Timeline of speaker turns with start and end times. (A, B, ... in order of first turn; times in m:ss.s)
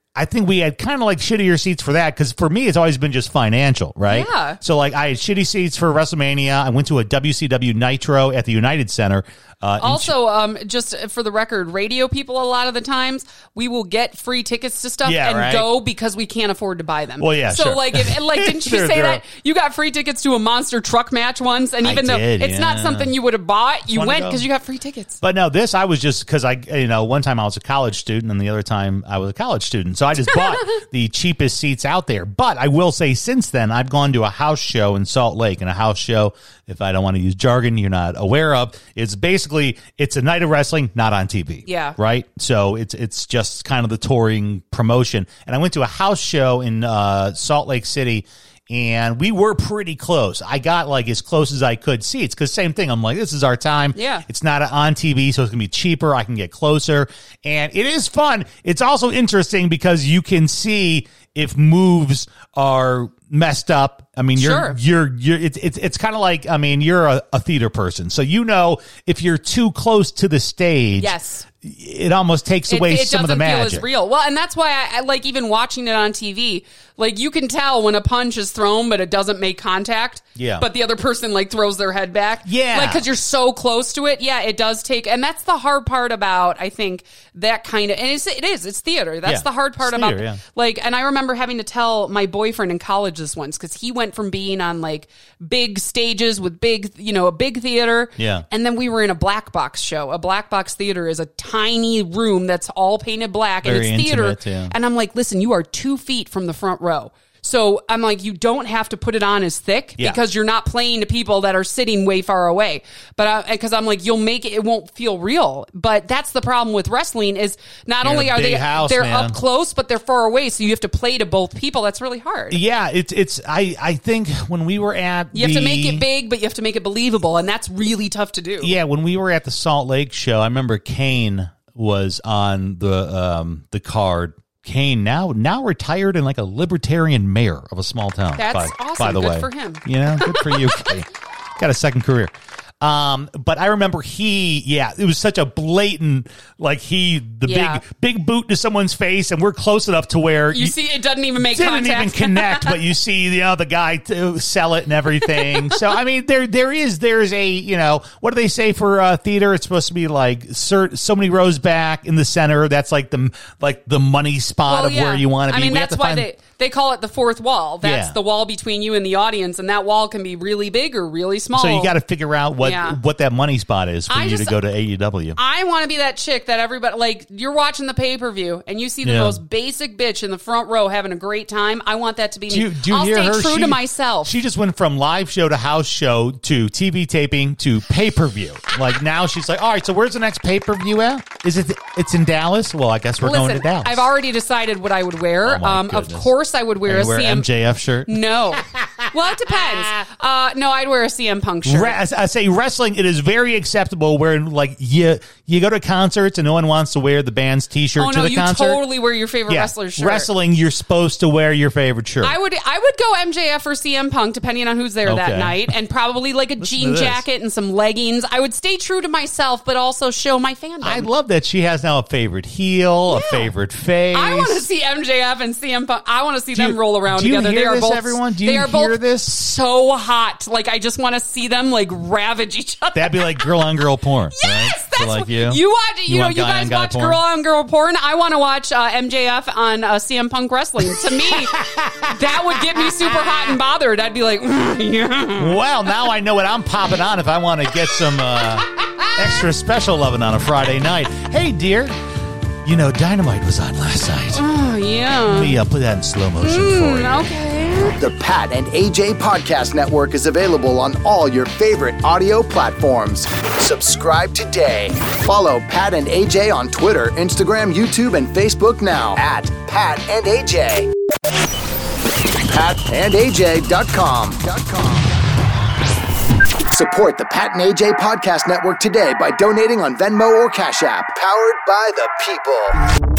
0:00.1-0:10.1 A
0:04.1-0:04.6 B
0:09.8-0:25.2 B
0:15.0-0:15.7 A
0:17.2-0:19.2 A
0:21.8-0:23.1 A
0:23.9-0:24.4 A
0:25.2-1:13.8 A
0:41.6-0:42.0 B
0:53.9-0:54.2 B
1:04.3-1:04.8 B
1:11.0-1:11.5 B
1:12.7-2:02.6 B
1:20.4-1:20.7 A
1:22.4-1:23.0 A
1:29.2-1:30.4 A
1:38.2-1:38.4 A
1:43.6-1:44.7 A
1:58.0-1:59.4 A
2:02.5-2:06.0 A
2:05.3-2:08.7 B
2:08.6-2:30.8 A
2:18.4-2:20.8 B
2:27.4-2:27.8 B
2:30.5-2:32.8 B
2:31.4-2:46.3 A
2:35.3-2:35.8 B
2:44.6-2:51.9 B
2:47.8-2:48.2 A
2:51.5-2:55.4 A
2:52.6-2:53.0 B
2:54.1-2:54.5 B
2:55.4-3:04.3 B
2:59.0-2:59.4 A
3:02.5-3:14.1 A
3:13.2-3:17.5 B
3:15.4-3:16.3 A
3:16.8-3:20.0 A
3:18.1-3:22.0 B
3:21.6-3:28.8 A
3:28.0-3:30.3 B
3:29.5-3:32.4 A
3:32.2-3:41.1 B
3:35.0-3:35.7 A
3:36.6-3:37.2 A
3:40.8-3:44.6 A
3:43.1-3:43.5 B
3:44.1-3:53.5 B
3:46.5-3:49.3 A
3:52.9-3:57.2 A
3:54.4-4:05.6 B
4:00.8-4:03.6 A
4:05.4-4:11.9 A
4:12.6-4:14.4 A
4:14.3-4:15.6 B
4:15.2-4:17.3 A
4:16.4-4:18.0 B
4:18.0-4:30.9 C
4:32.5-4:35.2 C
4:36.7-4:42.8 C